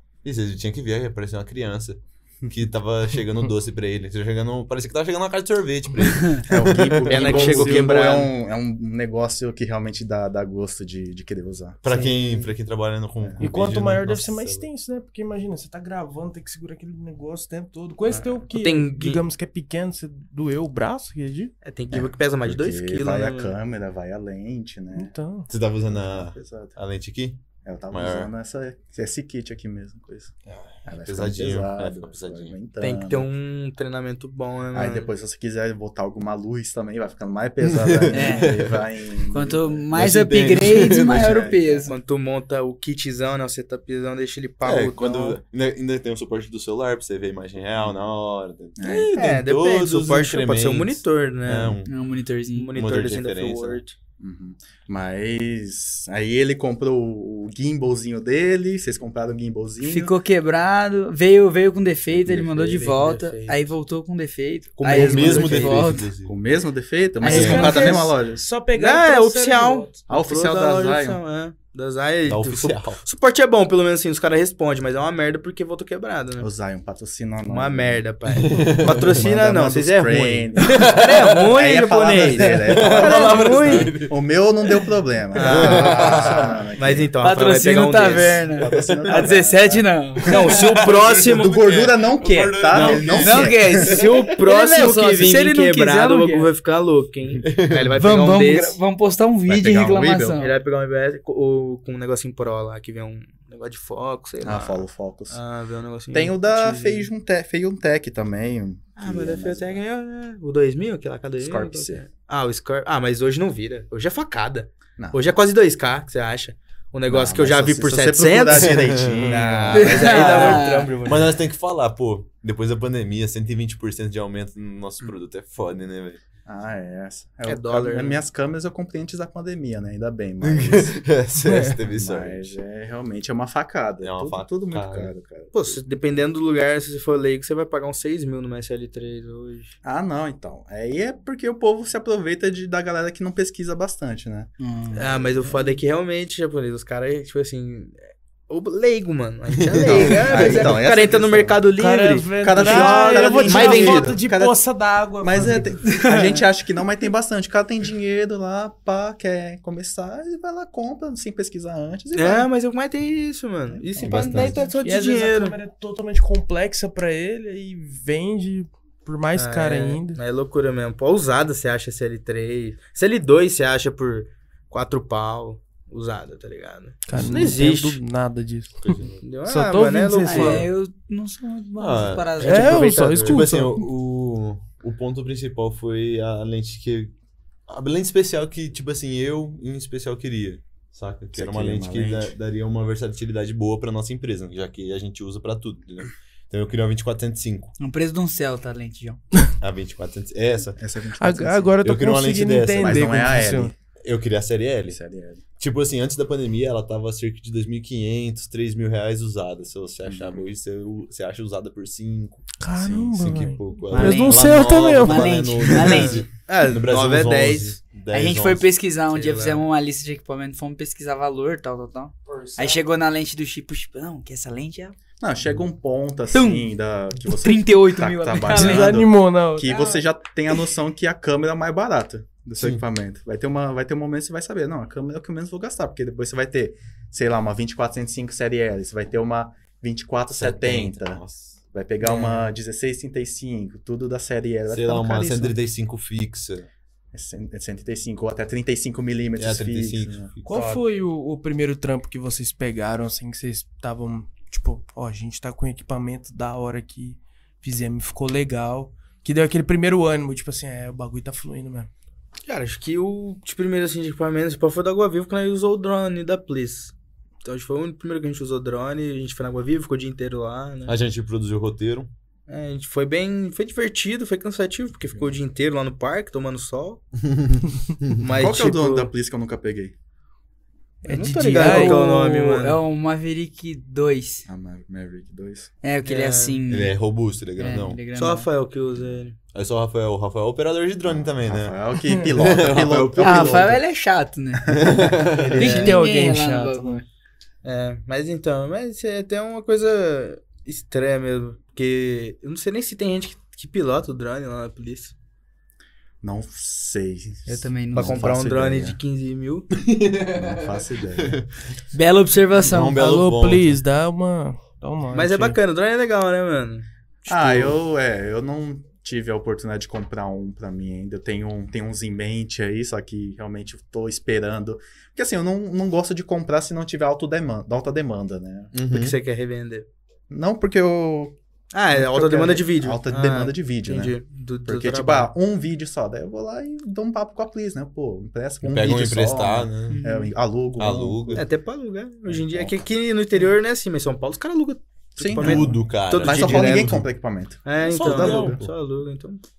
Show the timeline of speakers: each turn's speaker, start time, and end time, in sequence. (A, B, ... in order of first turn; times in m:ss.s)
0:00.2-0:07.9 A
0:06.4-0:12.1 B
0:07.1-0:08.3 C
0:11.8-0:14.7 A
0:13.2-0:13.5 B
0:13.4-0:21.5 D
0:18.1-0:19.2 C
0:21.6-0:23.6 C
0:21.9-0:25.1 B
0:25.0-0:25.5 D
0:25.5-0:28.3 A
0:25.9-0:26.8 B
0:27.6-0:30.3 B
0:30.8-0:33.3 B
0:30.9-0:32.6 A
0:32.8-0:35.1 C
0:34.7-0:39.9 B
0:37.6-0:38.8 A
0:38.1-0:38.5 E
0:39.3-0:42.0 E
0:39.9-0:41.5 A
0:40.8-0:41.9 B
0:41.9-0:45.4 C
0:44.6-0:51.9 A
0:48.8-0:49.2 B
0:49.1-0:51.8 C
0:51.8-0:52.7 E
0:52.5-0:54.0 C
0:52.7-0:53.8 A
0:54.2-1:00.2 B
0:59.8-1:06.0 E
1:02.6-1:03.7 C
1:04.8-1:05.9 C
1:04.9-1:06.4 A
1:06.2-1:08.4 B
1:07.2-1:08.0 E
1:07.2-1:10.0 D
1:07.2-1:07.9 A
1:08.8-1:16.5 C
1:10.1-1:11.2 B
1:12.3-1:13.0 A
1:16.4-1:18.1 B
1:17.5-1:23.9 C
1:18.3-1:19.2 A
1:19.0-1:27.1 B
1:20.6-1:21.5 A
1:22.5-1:24.1 A
1:25.3-1:28.4 C
1:25.4-1:26.6 A
1:27.2-1:30.7 E
1:28.1-1:29.9 B
1:28.7-1:29.3 A
1:30.2-1:31.6 C
1:30.3-1:34.2 A
1:31.2-1:34.0 B
1:32.7-1:38.8 C
1:33.2-1:36.5 E
1:37.4-1:37.9 A
1:38.0-1:40.5 E
1:39.5-1:40.5 B
1:40.4-1:46.8 C
1:44.4-1:45.4 B
1:46.1-1:49.8 B
1:46.6-1:46.9 D
1:49.0-2:01.4 C
1:51.4-1:52.1 B
1:57.1-2:00.6 B
1:58.5-2:06.2 A
1:59.7-2:00.9 E
2:06.5-2:11.0 B
2:07.5-2:08.2 C
2:10.4-2:12.6 A
2:11.5-2:11.8 D
2:11.9-2:15.8 B
2:14.0-2:15.1 A
2:15.5-2:19.8 C
2:19.8-2:25.7 B
2:24.6-2:25.1 E
2:25.0-2:28.0 C
2:28.5-2:34.1 C
2:29.6-2:30.2 A
2:29.7-2:31.6 B
2:30.2-2:30.5 E
2:31.8-2:35.9 D
2:32.4-2:34.6 B
2:33.6-2:33.9 E
2:35.2-2:42.5 B
2:35.9-2:36.2 E
2:42.1-2:45.6 C
2:43.7-2:44.7 B
2:44.0-2:44.6 A
2:44.8-2:50.2 D
2:49.4-2:58.0 C
2:57.1-3:00.7 D
2:58.8-2:59.2 A
2:59.2-3:00.7 C
3:00.2-3:03.0 E
3:01.8-3:02.6 A
3:02.4-3:03.5 C
3:02.4-3:03.8 D
3:03.2-3:07.1 A
3:07.7-3:17.8 A
3:11.3-3:12.4 B
3:17.8-3:19.2 E
3:19.6-3:20.8 A
3:20.8-3:21.8 B
3:21.2-3:23.7 D
3:21.8-3:23.1 A
3:22.8-3:23.8 B
3:24.0-3:25.0 A
3:24.9-3:25.4 B
3:25.6-3:32.4 A
3:30.1-3:30.4 B
3:32.6-3:36.0 D
3:32.7-3:33.4 B
3:33.2-3:38.7 A
3:33.9-3:36.3 E
3:36.0-3:37.8 C
3:38.1-3:45.0 E
3:39.1-3:39.6 C
3:42.3-3:42.8 D
3:45.2-4:05.6 B
3:46.3-3:46.7 E
3:47.2-3:49.0 E
3:48.5-3:49.8 D
3:49.7-3:50.0 E
4:00.4-4:01.6 A
4:04.7-4:06.7 A
4:07.1-4:10.3 B
4:09.4-4:10.8 A
4:10.5-4:21.9 D
4:22.5-4:31.0 C
4:30.9-4:32.1 A
4:32.5-4:37.0 C
4:37.2-4:38.2 A
4:38.2-4:39.1 C
4:38.4-4:39.9 B
4:41.0-4:42.6 D
4:41.0-4:42.8 C
4:41.1-4:44.5 E
4:44.5-4:45.7 B
4:45.8-4:46.9 E
4:46.0-4:46.6 C
4:46.7-4:48.0 A
4:47.6-4:48.5 E
4:48.1-4:49.4 C
4:49.5-4:51.8 A
4:51.0-4:53.9 B
4:52.4-4:53.8 A
4:53.2-4:55.0 E
4:54.7-4:55.8 A
4:54.7-4:55.9 B
4:55.6-4:57.0 D
4:55.6-4:57.0 E
4:55.6-4:55.9 C
4:57.6-5:05.1 C
5:06.2-5:09.0 B
5:07.5-5:09.7 C
5:07.5-5:08.2 E
5:09.8-5:11.5 A
5:10.3-5:11.4 B
5:11.9-5:13.0 E
5:12.6-5:13.8 A
5:12.9-5:15.6 D
5:15.1-5:16.9 C
5:17.3-5:28.7 B
5:28.7-5:29.2 A
5:28.9-5:29.9 C
5:30.3-5:31.4 B
5:31.7-5:35.3 C
5:31.9-5:41.5 B
5:38.6-5:40.0 A
5:39.9-5:40.3 E
5:40.8-5:41.4 A
5:41.4-5:47.0 C
5:42.3-5:42.8 B
5:45.2-5:48.7 B
5:45.4-5:47.1 A
5:47.6-5:49.4 C
5:47.8-5:48.7 A